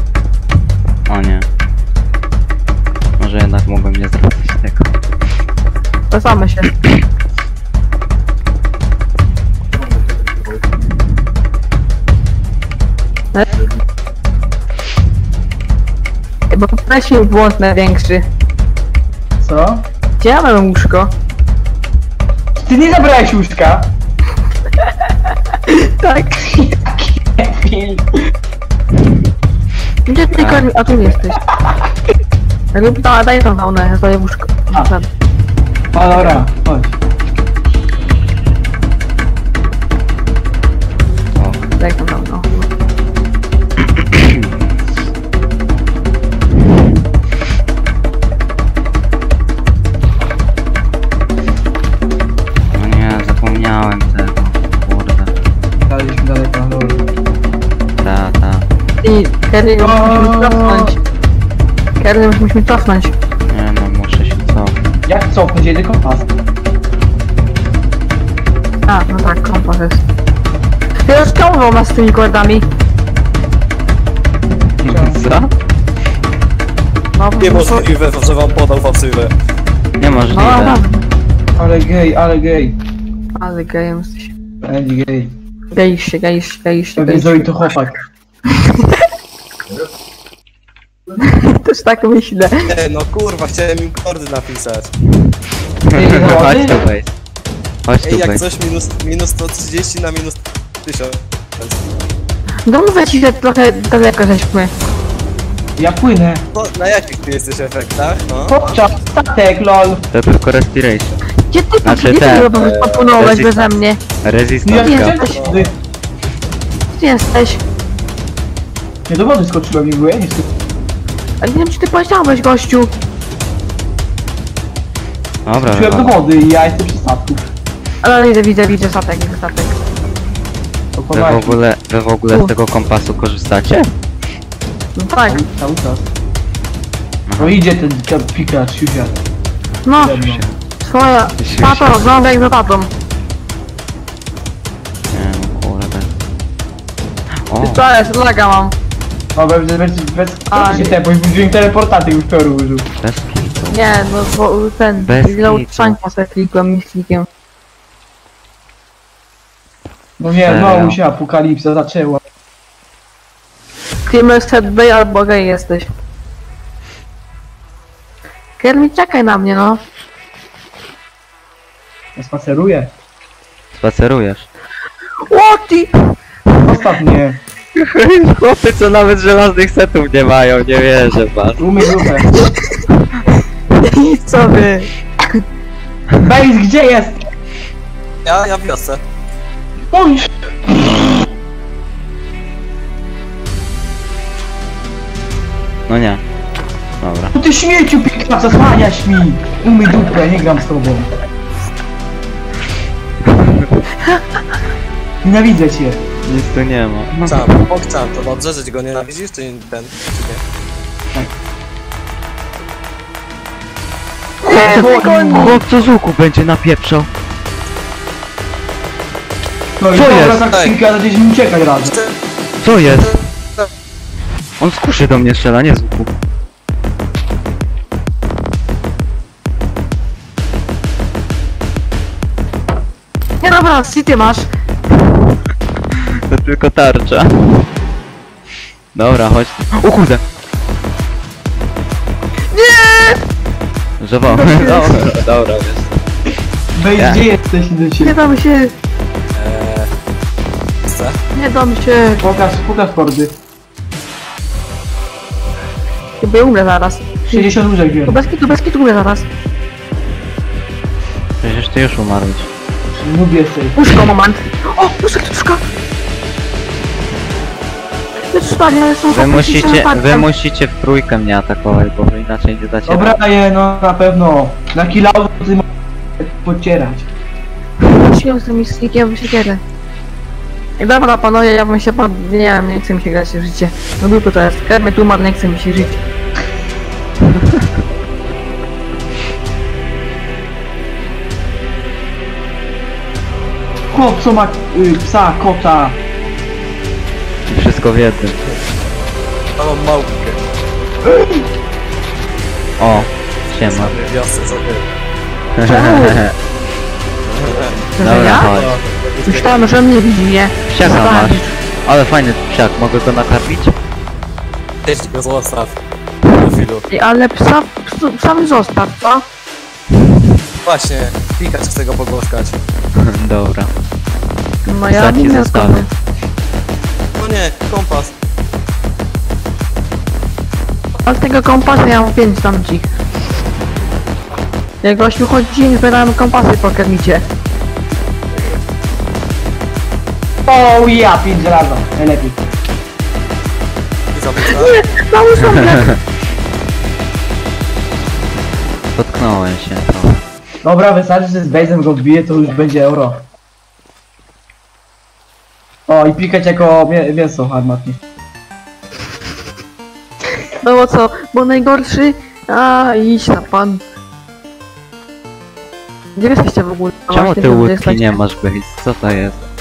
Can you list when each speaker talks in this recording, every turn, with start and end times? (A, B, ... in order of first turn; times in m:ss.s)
0:01.1-0:01.4 A
0:03.2-0:04.9 A
0:06.1-0:06.7 B
0:16.5-0:18.2 B
0:19.4-0:19.8 C
0:20.2-0:21.1 B
0:22.6-0:23.9 C
0:25.6-0:26.7 B
0:26.8-0:28.2 C
0:30.0-0:31.4 B
0:30.3-0:30.7 A
0:31.4-0:31.9 C
0:32.7-0:35.1 B
0:35.9-0:36.9 C
0:41.4-0:41.6 A
0:41.8-0:42.7 B
0:43.9-0:44.5 A
0:52.7-0:55.3 A
0:55.9-0:57.0 C
0:58.0-0:58.6 A
0:59.0-1:01.0 B
0:59.8-1:00.9 C
1:02.0-1:03.1 B
1:03.5-1:04.8 A
1:05.1-1:06.3 C
1:08.9-1:10.0 B
1:11.0-1:12.7 B
1:14.8-1:15.5 A
1:14.8-1:15.3 C
1:17.1-1:17.8 B
1:17.4-1:19.3 D
1:20.0-1:20.8 A
1:20.3-1:20.9 B
1:21.5-1:22.8 C
1:23.3-1:24.3 B
1:24.6-1:25.3 C
1:25.7-1:27.6 B
1:27.0-1:28.0 C
1:28.5-1:29.0 B
1:31.2-1:32.7 B
1:32.7-1:34.9 D
1:35.9-1:37.1 A
1:35.9-1:36.8 C
1:37.8-1:38.4 A
1:38.0-1:41.8 D
1:42.6-1:44.7 B
1:45.8-1:46.4 C
1:46.5-1:48.8 D
1:48.5-1:50.0 C
1:50.1-1:51.2 A
1:51.5-1:54.0 B
1:51.8-1:55.2 A
1:54.6-1:55.7 C
1:54.7-1:55.5 B
1:56.9-1:57.6 B
1:59.1-2:00.4 C
2:01.4-2:02.9 B
2:05.4-2:06.2 A
2:05.6-2:07.5 C
2:08.0-2:09.8 B
2:10.9-2:11.6 C
2:11.1-2:13.9 A
2:15.0-2:16.0 C
2:15.0-2:15.4 B
2:17.3-2:17.6 A
2:17.4-2:19.2 C
2:19.8-2:20.2 B
2:20.0-2:20.4 C
2:20.2-2:20.6 A
2:20.8-2:22.9 B
2:21.4-2:22.0 A
2:25.1-2:26.1 A
2:27.5-2:27.8 A
2:27.6-2:28.7 B
2:29.3-2:32.9 C
2:30.5-2:31.0 B
2:33.0-2:33.8 A
2:33.7-2:37.3 B
2:35.0-2:36.0 A
2:40.2-2:42.2 C
2:40.3-2:41.0 A
2:44.0-2:45.9 B
2:48.6-2:49.8 B
2:52.2-2:52.9 C
2:53.7-2:54.5 A
2:55.2-2:55.9 B
2:56.6-2:57.4 C
2:57.8-3:01.7 A
3:01.6-3:02.3 C
3:02.3-3:02.6 B
3:03.8-3:05.4 B
3:06.2-3:07.2 C
3:08.2-3:09.0 D
3:09.9-3:11.1 C
3:15.9-3:16.2 A
3:17.0-3:17.3 A
3:17.3-3:21.1 C
3:23.3-3:23.7 A
3:25.2-3:26.0 C
3:26.2-3:27.5 A
3:27.3-3:30.4 D
3:34.4-3:35.6 B
3:34.4-3:35.5 C
3:34.6-3:37.1 A
3:39.8-3:42.0 C
3:39.9-3:40.5 A
3:40.1-3:40.8 D
3:41.9-3:42.1 D
3:42.6-3:43.2 A
3:44.6-3:46.1 A
3:53.4-3:54.5 B
3:55.0-3:55.3 A
3:55.9-3:57.7 A
3:58.9-4:00.2 A
4:02.5-4:03.2 B
4:04.0-4:06.0 A
4:04.3-4:05.0 B
4:06.7-4:08.2 C
4:06.9-4:07.2 A
4:08.0-4:08.7 B
4:09.3-4:09.9 D
4:10.8-4:11.2 D
4:11.3-4:12.2 B
4:12.2-4:13.3 C
4:16.2-4:17.5 B
4:17.3-4:18.2 C
4:18.0-4:19.2 B
4:21.4-4:22.5 A
4:23.0-4:23.8 C
4:23.7-4:25.6 B
4:28.3-4:30.3 B
4:29.1-4:33.2 A
4:32.9-4:35.7 C
4:36.2-4:37.1 C
4:38.0-4:39.6 B
4:40.8-4:46.0 B
4:47.3-4:47.6 A
4:53.9-4:56.0 C
4:57.5-4:58.4 A
4:59.6-5:00.4 D
5:01.0-5:01.4 C
5:02.8-5:03.9 A
5:02.9-5:04.8 D
5:05.6-5:06.3 A
5:05.6-5:06.2 B
5:07.3-5:09.6 D
5:08.0-5:08.5 B
5:08.0-5:08.8 A
5:09.2-5:11.5 B
5:10.7-5:13.7 A
5:14.8-5:15.7 D
5:16.3-5:16.9 D
5:16.9-5:19.2 B
5:20.6-5:22.6 D
5:23.0-5:23.7 A
5:24.6-5:25.9 B
5:24.9-5:25.8 A
5:27.2-5:28.1 D
5:31.0-5:32.9 B
5:34.8-5:37.2 B
5:40.4-5:42.4 C
5:44.1-5:44.8 D
5:44.5-5:46.0 B
5:45.5-5:45.9 A
5:48.9-5:50.2 A
5:50.6-5:53.2 C
5:55.9-5:58.0 C
6:00.6-6:03.8 B
6:06.2-6:08.2 B
6:07.1-6:09.4 A